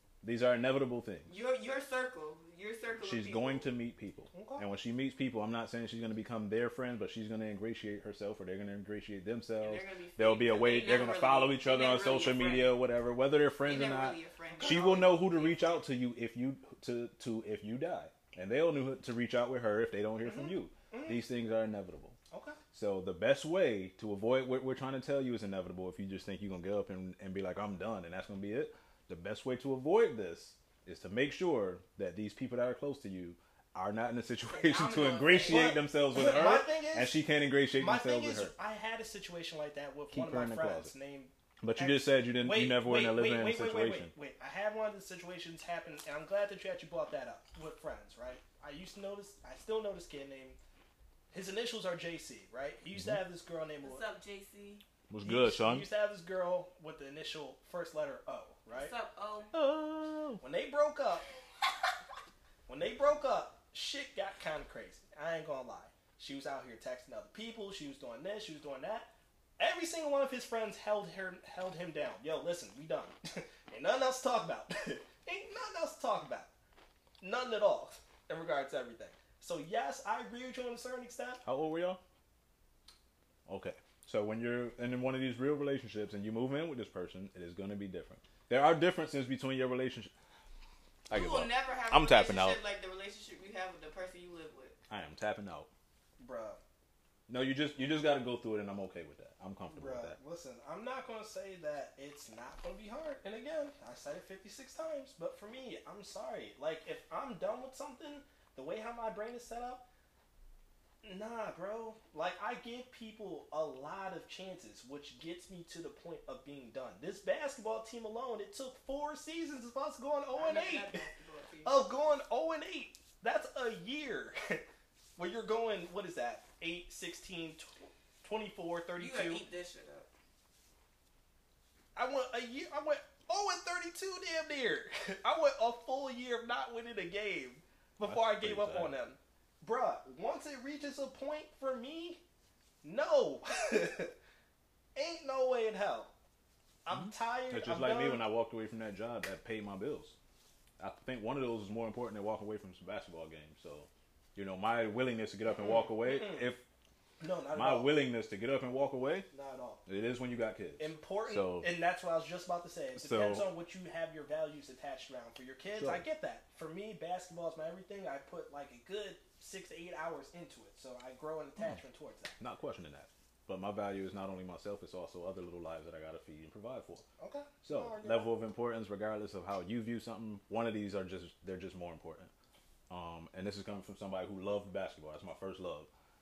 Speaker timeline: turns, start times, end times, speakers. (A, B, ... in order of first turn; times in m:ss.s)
0:00.2-0:01.3 A
0:01.3-0:03.7 B
0:03.0-0:22.2 A
0:04.3-0:04.7 C
0:09.6-0:12.8 B
0:13.6-0:15.6 B
0:14.6-0:15.2 C
0:20.2-0:21.2 C
0:22.3-0:22.6 C
0:22.7-0:38.5 A
0:34.5-0:35.8 B
0:35.5-0:37.2 C
0:37.8-0:50.6 C
0:40.1-0:40.9 A
0:41.6-0:44.1 A
0:51.3-0:54.0 C
0:53.8-0:54.8 B
0:55.1-0:55.9 A
0:55.2-0:58.9 C
0:58.7-0:59.5 B
0:59.5-1:00.4 A
1:00.4-1:01.2 C
1:02.7-1:16.5 C
1:17.2-1:21.4 C
1:21.4-1:22.0 A
1:23.4-1:30.1 A
1:31.1-1:32.6 A
1:31.1-1:34.8 B
1:34.9-1:35.7 A
1:36.2-1:36.6 C
1:37.3-1:40.2 A
1:39.7-1:49.8 C
1:51.0-2:01.0 C
2:00.3-2:01.8 B
2:01.6-2:04.6 C
2:05.2-2:09.4 C
2:09.0-2:10.1 B
2:11.9-2:22.2 C
2:18.0-2:18.9 A
2:22.8-2:24.1 C
2:24.9-2:26.1 C
2:26.8-2:28.3 C
2:26.9-2:30.2 A
2:30.8-2:36.6 A
2:35.6-2:36.5 C
2:37.2-2:37.9 C
2:37.5-2:39.3 A
2:39.3-2:39.8 C
2:39.8-2:41.7 A
2:40.8-2:52.4 C
2:43.0-2:43.5 A
2:45.7-2:46.0 A
2:52.4-2:57.0 A
2:57.2-2:58.3 C
2:57.6-3:02.3 A
3:02.9-3:05.9 A